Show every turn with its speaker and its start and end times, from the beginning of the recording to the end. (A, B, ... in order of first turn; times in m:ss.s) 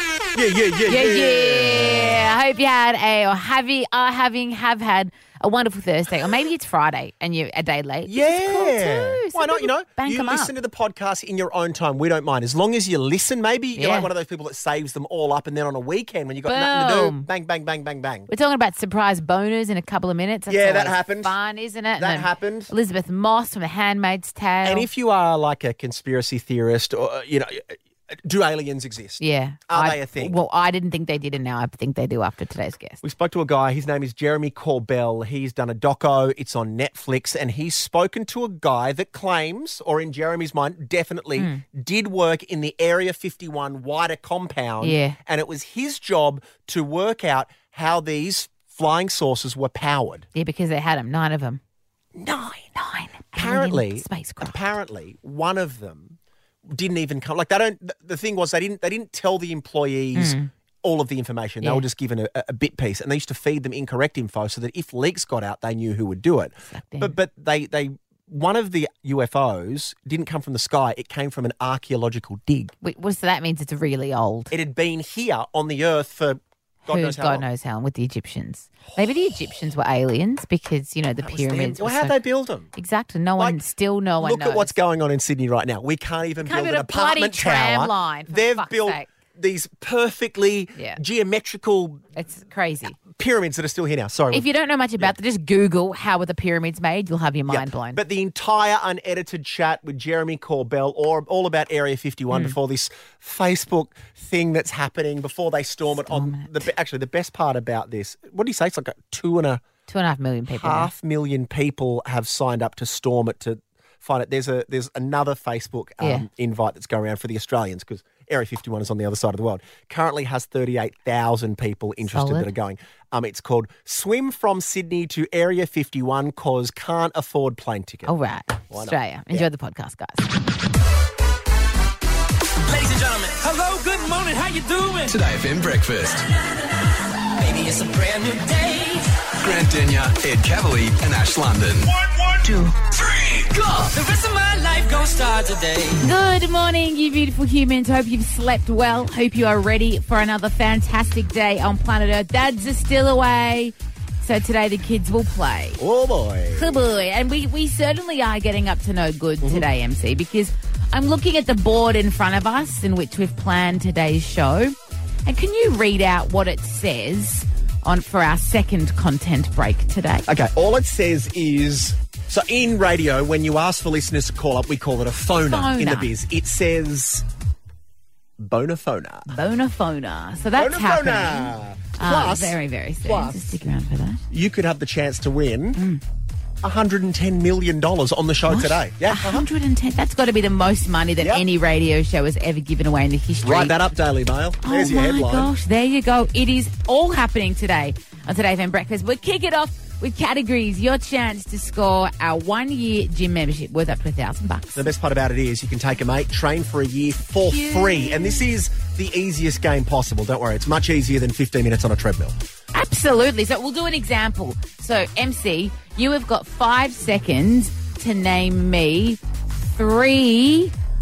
0:00.3-0:02.2 A
0:00.9-0:10.5 B
0:08.0-0:18.3 A
0:13.7-0:14.1 B
0:16.5-0:17.2 B
0:18.3-0:24.9 B
0:20.5-0:21.3 A
0:22.0-0:22.7 A
0:24.6-0:30.4 A
0:29.2-0:33.0 B
0:33.0-0:50.2 A
0:41.4-0:41.6 B
0:44.8-0:45.2 B
0:50.3-0:51.6 B
0:52.1-0:52.7 A
0:52.8-0:54.6 B
0:53.3-1:12.7 A
1:00.1-1:00.5 B
1:06.7-1:07.2 B
1:12.8-1:14.5 B
1:14.5-1:17.5 A
1:16.9-1:22.2 B
1:21.2-1:22.7 A
1:22.7-1:24.7 B
1:24.2-1:32.0 A
1:26.4-1:29.1 B
1:30.7-1:31.0 B
1:32.2-1:33.0 B
1:33.0-1:34.4 A
1:34.3-1:38.0 B
1:37.5-1:49.6 A
1:42.3-1:42.6 B
1:45.9-1:46.7 B
1:49.9-1:50.9 B
1:50.5-2:08.1 A
1:56.0-1:56.2 B
2:02.0-2:02.5 B
2:08.0-2:10.3 B
2:08.7-2:09.4 A
2:12.7-2:15.1 C
2:15.0-2:16.2 D
2:17.4-2:19.0 C
2:19.4-2:21.9 D
2:23.8-2:25.9 C
2:26.0-2:35.8 B
2:35.8-2:36.9 A
2:36.5-2:44.7 B
2:39.4-2:39.7 A
2:45.2-2:50.3 B
2:50.3-2:57.2 A
2:55.4-2:56.1 B
2:58.4-2:59.3 A
2:59.3-3:04.2 B
3:00.6-3:03.4 A
3:04.3-3:05.8 A
3:05.8-3:06.0 B
3:06.6-3:09.5 A
3:08.5-3:13.8 B
3:11.2-3:11.4 A
3:13.4-3:15.5 A
3:14.6-3:24.9 B
3:24.7-3:32.3 A
3:27.4-3:28.5 B
3:32.7-3:40.7 B